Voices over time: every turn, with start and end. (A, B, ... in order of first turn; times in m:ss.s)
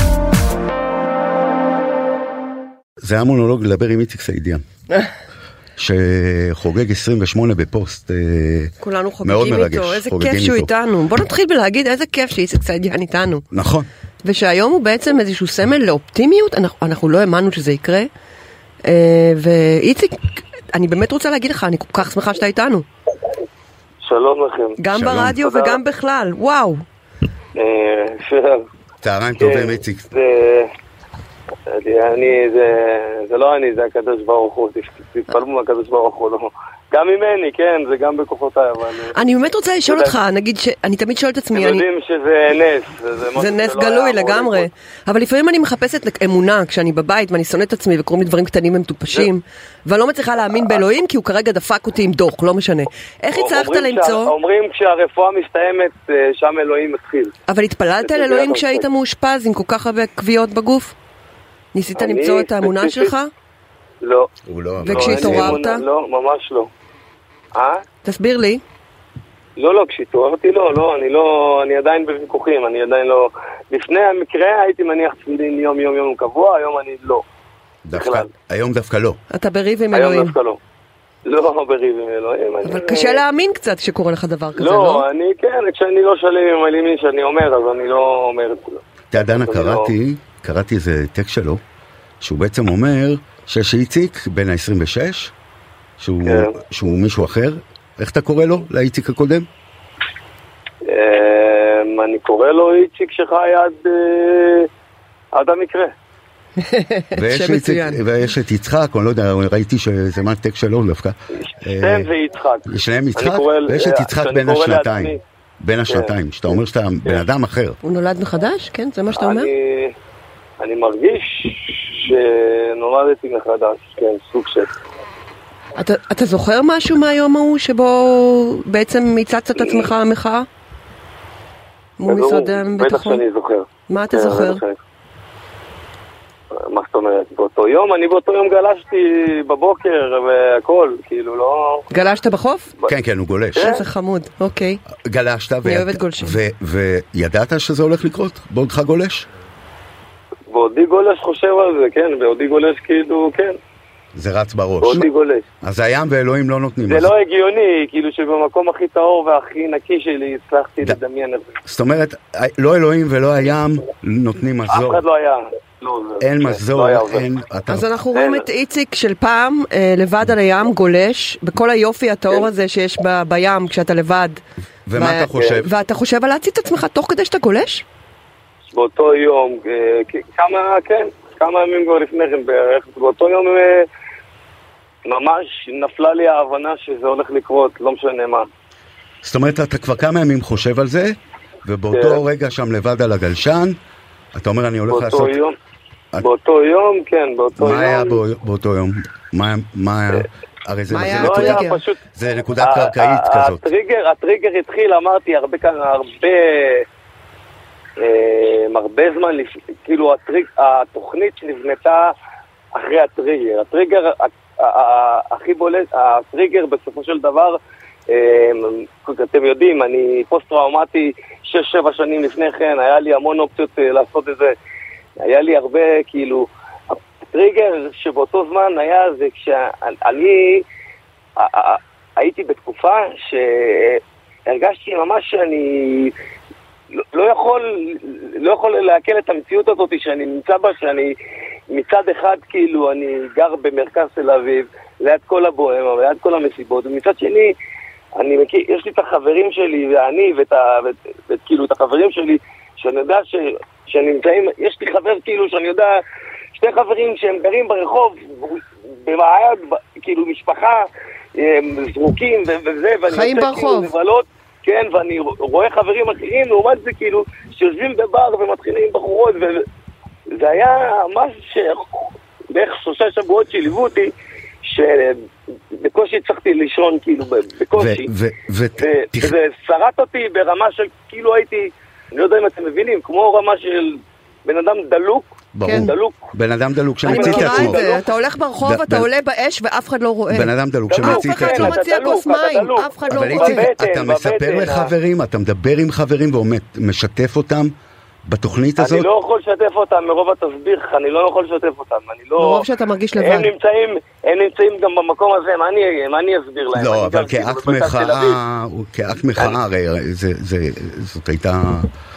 0:03.0-0:04.6 A
0:05.8-0:10.7 A
0:08.8-0:13.4 B
0:13.5-0:13.9 A
0:14.2-0:18.1 B
0:18.8-0:20.2 B
0:20.7-0:22.8 B
0:24.0-0:24.8 C
0:24.8-0:26.8 B
0:24.9-0:25.4 A
0:25.4-0:25.8 C
0:27.6-0:28.6 C
0:29.0-0:30.1 A
0:29.4-0:30.7 C
0:31.7-0:39.1 C
0:39.1-0:41.8 B
0:39.9-0:40.1 C
0:41.5-0:44.7 C
0:43.3-0:54.3 B
0:50.5-0:50.9 C
0:53.3-0:57.3 C
0:57.5-1:00.9 B
0:58.0-0:58.8 C
1:01.7-1:03.3 B
1:02.0-1:03.1 C
1:04.0-1:04.3 C
1:04.5-1:05.6 A
1:04.8-1:05.8 B
1:04.8-1:06.7 C
1:07.5-1:07.8 C
1:08.0-1:08.6 B
1:09.6-1:17.2 C
1:17.8-1:19.2 A
1:17.9-1:18.3 C
1:19.3-1:20.3 B
1:19.9-1:20.6 C
1:21.2-1:23.2 C
1:22.6-1:25.0 B
1:24.6-1:29.9 C
1:29.1-1:31.6 A
1:32.2-1:35.3 A
1:36.0-1:39.5 A
1:36.2-1:36.5 C
1:40.8-1:44.7 C
1:45.3-1:45.9 C
1:46.6-1:48.0 B
1:47.1-1:52.1 A
1:51.4-1:55.2 C
1:52.6-1:57.8 A
1:55.9-1:57.2 C
1:57.8-1:59.5 B
1:59.1-1:59.9 C
2:00.6-2:04.7 C
2:05.8-2:10.5 B
2:09.6-2:09.9 C
2:12.0-2:13.2 B
2:12.0-2:14.8 C
2:13.9-2:14.6 B
2:16.6-2:21.9 C
2:21.9-2:22.7 B
2:22.8-2:23.7 A
2:23.5-2:23.8 C
2:23.6-2:24.8 B
2:25.0-2:29.3 A
2:25.6-2:26.4 B
2:30.5-2:33.6 C
2:34.1-2:35.1 A
2:34.8-2:35.4 C
2:35.6-2:37.1 A
2:36.9-2:41.5 C
2:41.6-2:45.0 A
2:44.7-2:47.2 C
2:46.2-2:47.9 A
2:47.7-2:54.4 B
2:48.1-2:48.4 C
2:54.9-2:55.7 A
2:54.9-2:57.8 B
2:58.7-3:03.9 C
3:05.0-3:08.5 C
3:09.2-3:13.8 A
3:11.9-3:12.2 C
3:14.3-3:15.3 A
3:14.9-3:15.6 C
3:16.2-3:18.2 C
3:17.6-3:23.6 A
3:20.9-3:21.8 B
3:21.1-3:22.0 C
3:22.6-3:26.8 C
3:28.0-3:32.1 C
3:32.7-3:44.5 C
3:45.2-3:46.5 C
3:47.3-3:50.6 C
3:51.4-3:56.1 C
3:57.1-4:01.2 C
4:01.7-4:07.5 C
4:08.2-4:16.0 C
4:16.6-4:29.6 C
4:23.1-4:23.9 B
4:30.3-4:34.1 C
4:34.6-4:35.2 C
4:35.7-4:38.1 C
4:37.7-4:39.3 A
4:38.8-4:46.3 C
4:45.5-4:47.9 A
4:45.6-4:45.9 B
4:47.0-4:48.0 C
4:47.0-4:53.7 B
4:48.6-4:49.1 A
4:50.3-4:51.8 A
4:50.9-4:54.9 C
4:53.1-4:57.7 A
4:58.2-4:59.1 A
4:58.8-5:08.4 C
5:02.4-5:03.5 B
5:06.7-5:11.9 A